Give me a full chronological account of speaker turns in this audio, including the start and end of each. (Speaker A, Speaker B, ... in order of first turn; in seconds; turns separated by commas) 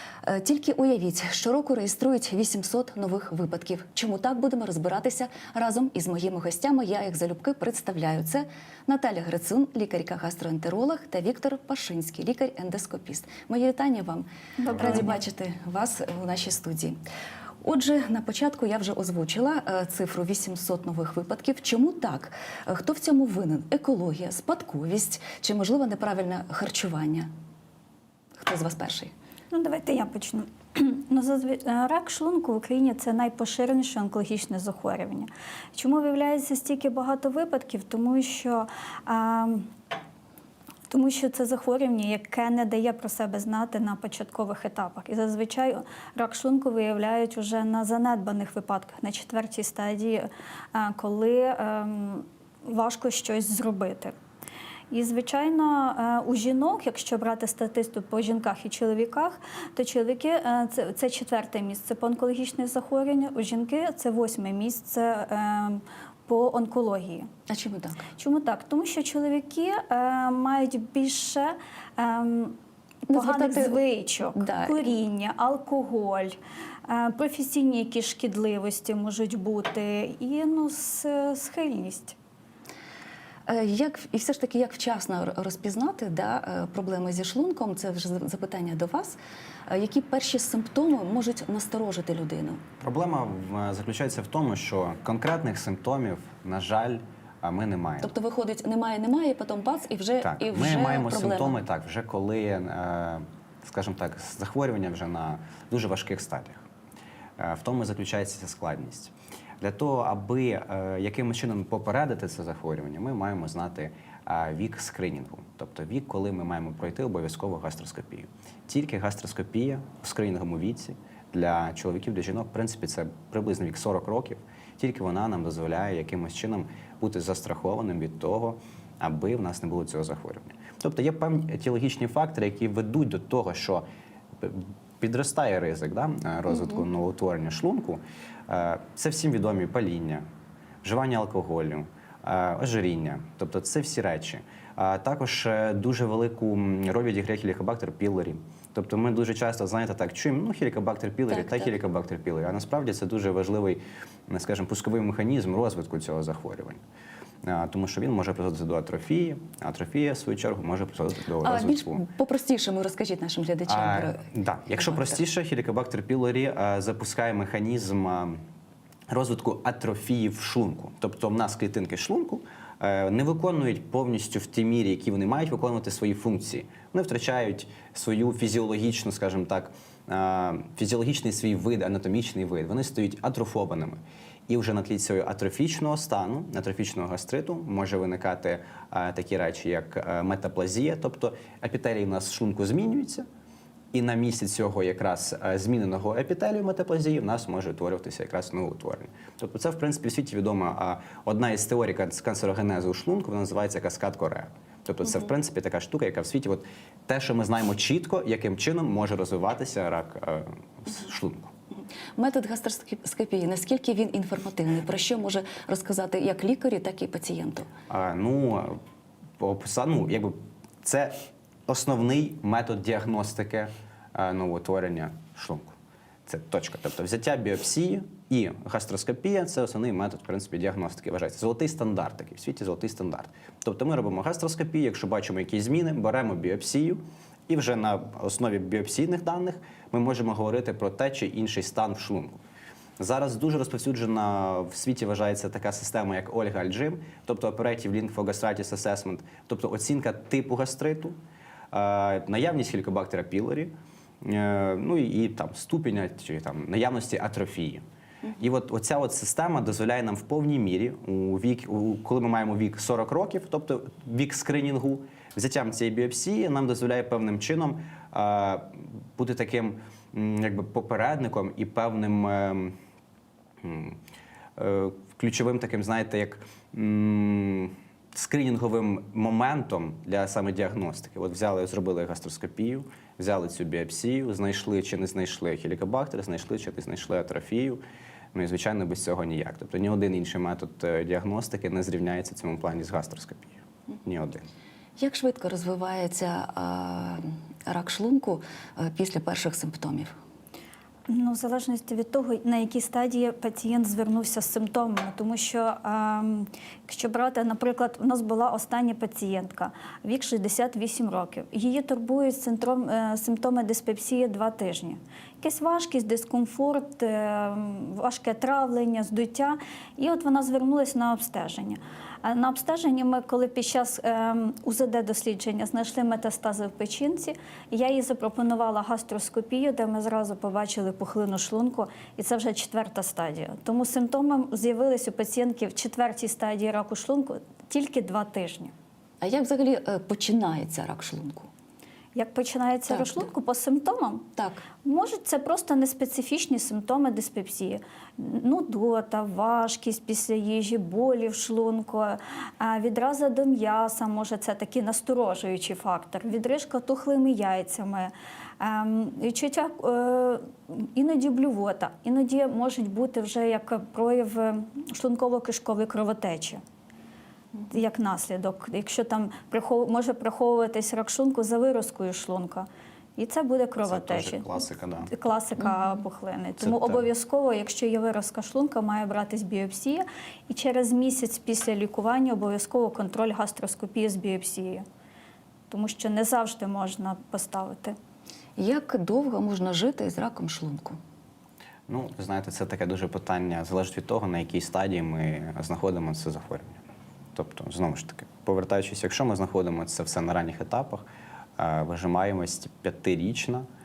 Speaker A: 0.2-17.0, Speaker B: 14.6-15.2, Speaker A: 17.6-27.3, Speaker A: 28.4-29.1, Speaker B: 29.5-39.7, Speaker B: 40.9-54.1, Speaker B: 54.9-67.3, Speaker A: 67.5-68.0, Speaker B: 68.2-72.6, Speaker B: 73.1-82.2, Speaker A: 73.1-73.8, Speaker A: 74.3-74.9, Speaker A: 83.5-89.2, Speaker A: 89.7-92.6, Speaker C: 92.8-98.1, Speaker A: 98.0-101.5, Speaker C: 100.2-106.6, Speaker C: 107.4-133.8, Speaker C: 134.4-140.2, Speaker C: 140.8-156.8, Speaker A: 151.3-151.7, Speaker C: 157.4-162.0, Speaker A: 161.4-165.2, Speaker C: 163.7-168.4, Speaker C: 169.1-193.2, Speaker C: 193.9-211.5, Speaker A: 211.7-217.7, Speaker C: 217.9-218.8, Speaker C: 219.4-225.8, Speaker C: 226.3-242.4, Speaker C: 243.0-251.2, Speaker C: 251.7-257.8, Speaker C: 258.4-272.8, Speaker C: 273.6-274.0, Speaker C: 274.6-287.8, Speaker C: 288.3-294.4, Speaker A: 295.0-300.1, Speaker B: 301.1-338.7, Speaker A: 339.2-341.5, Speaker B: 342.1-344.3, Speaker A: 342.9-343.2, Speaker A: 344.4-344.6, Speaker B: 344.8-366.6, Speaker B: 367.7-374.5, Speaker C: 373.9-375.1, Speaker B: 375.1-384.8, Speaker C: 376.6-377.0, Speaker B: 385.7-388.0, Speaker A: 388.6-391.0, Speaker C: 391.9-396.8, Speaker C: 397.3-401.1, Speaker C: 401.6-403.7